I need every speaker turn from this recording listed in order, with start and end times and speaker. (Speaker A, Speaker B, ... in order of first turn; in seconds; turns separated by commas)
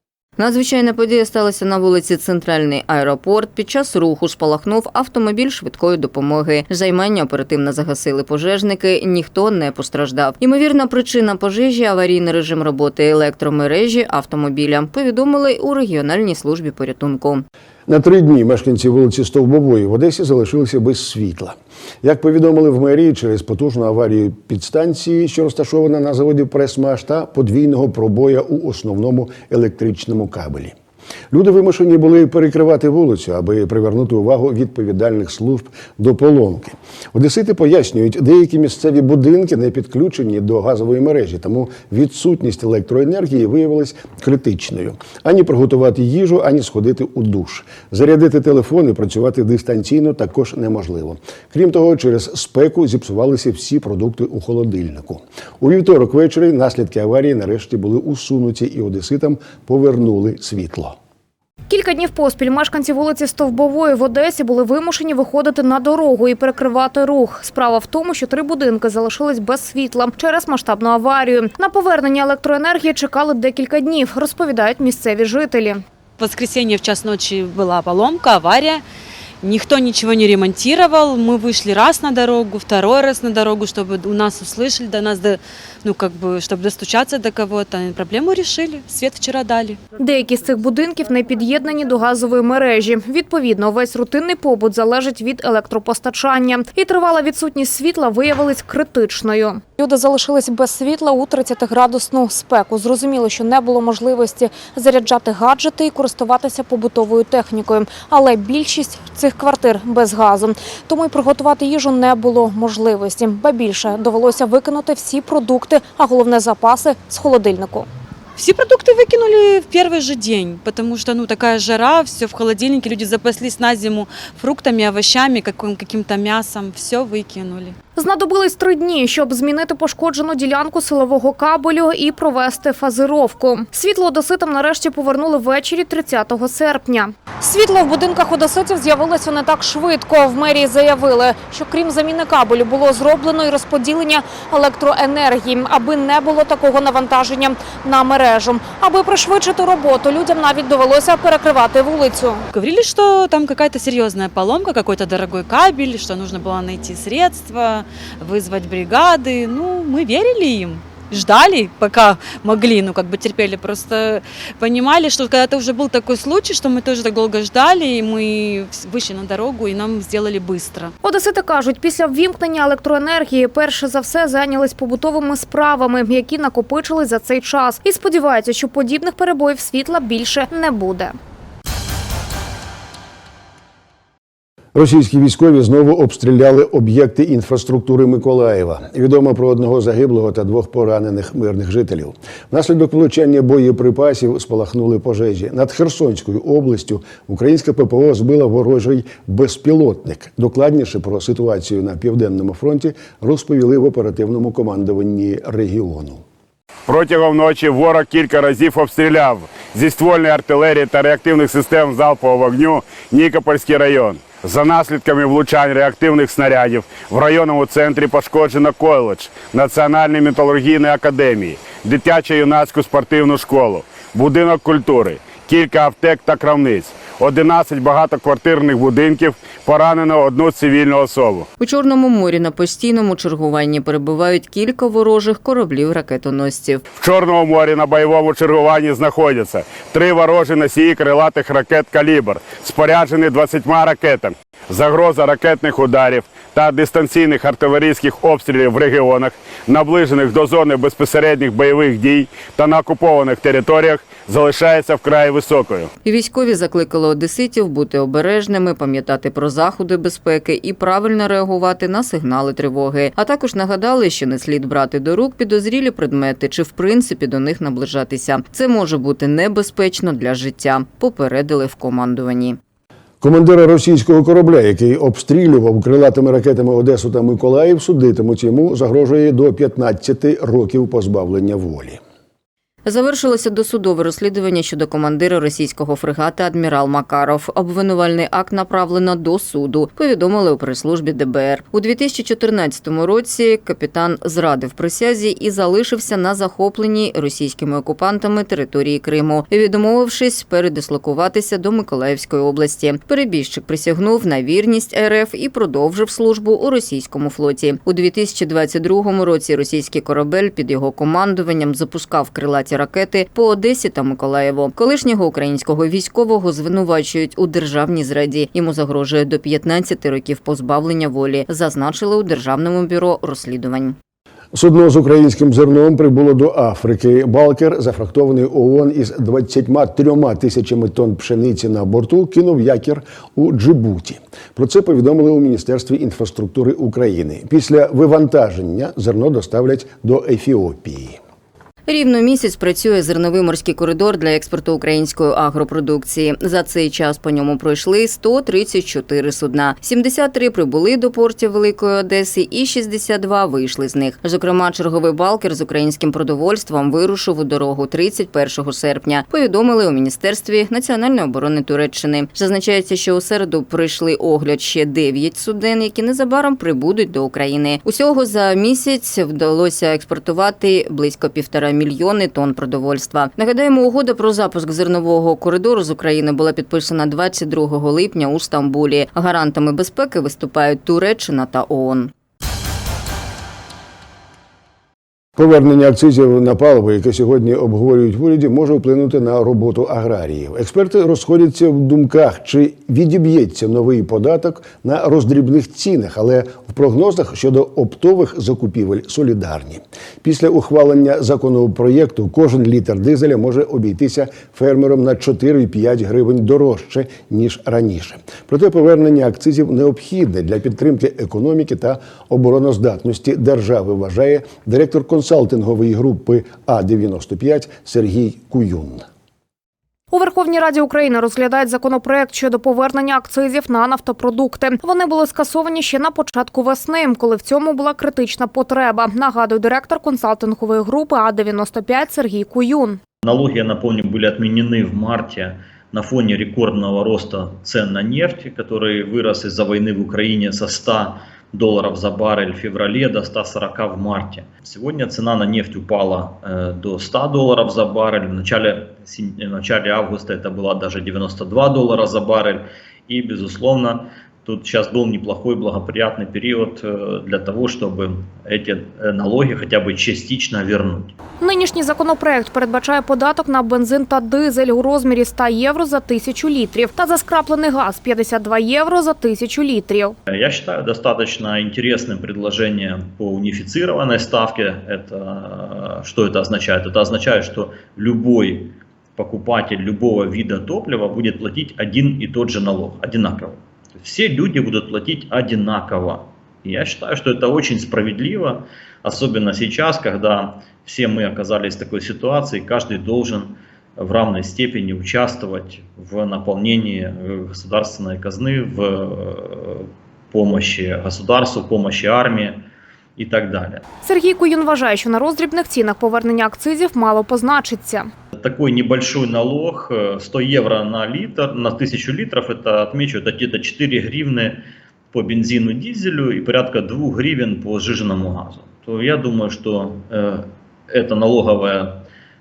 Speaker A: 0.4-17.5, Speaker B: 17.9-30.8, Speaker B: 31.3-61.0, Speaker C: 61.7-75.8, Speaker D: 76.2-78.8, Speaker D: 79.4-89.8, Speaker C: 90.0-117.9, Speaker D: 118.4-127.8, Speaker C: 128.0-152.5, Speaker D: 152.5-170.9, Speaker C: 171.0-181.2, Speaker B: 184.7-206.2, Speaker E: 206.9-231.5, Speaker A: 231.6-236.8, Speaker E: 237.0-255.9, Speaker A: 256.1-272.6, Speaker B: 273.2-282.0, Speaker A: 282.9-324.0, Speaker B: 324.5-341.2, Speaker A: 341.9-382.1, Speaker B: 385.4-419.1, Speaker C: 420.1-433.0, Speaker F: 433.2-461.1, Speaker C: 461.4-470.2, Speaker F: 470.3-502.6, Speaker F: 503.2-503.9, Speaker C: 504.0-508.1, Speaker F: 508.3-522.0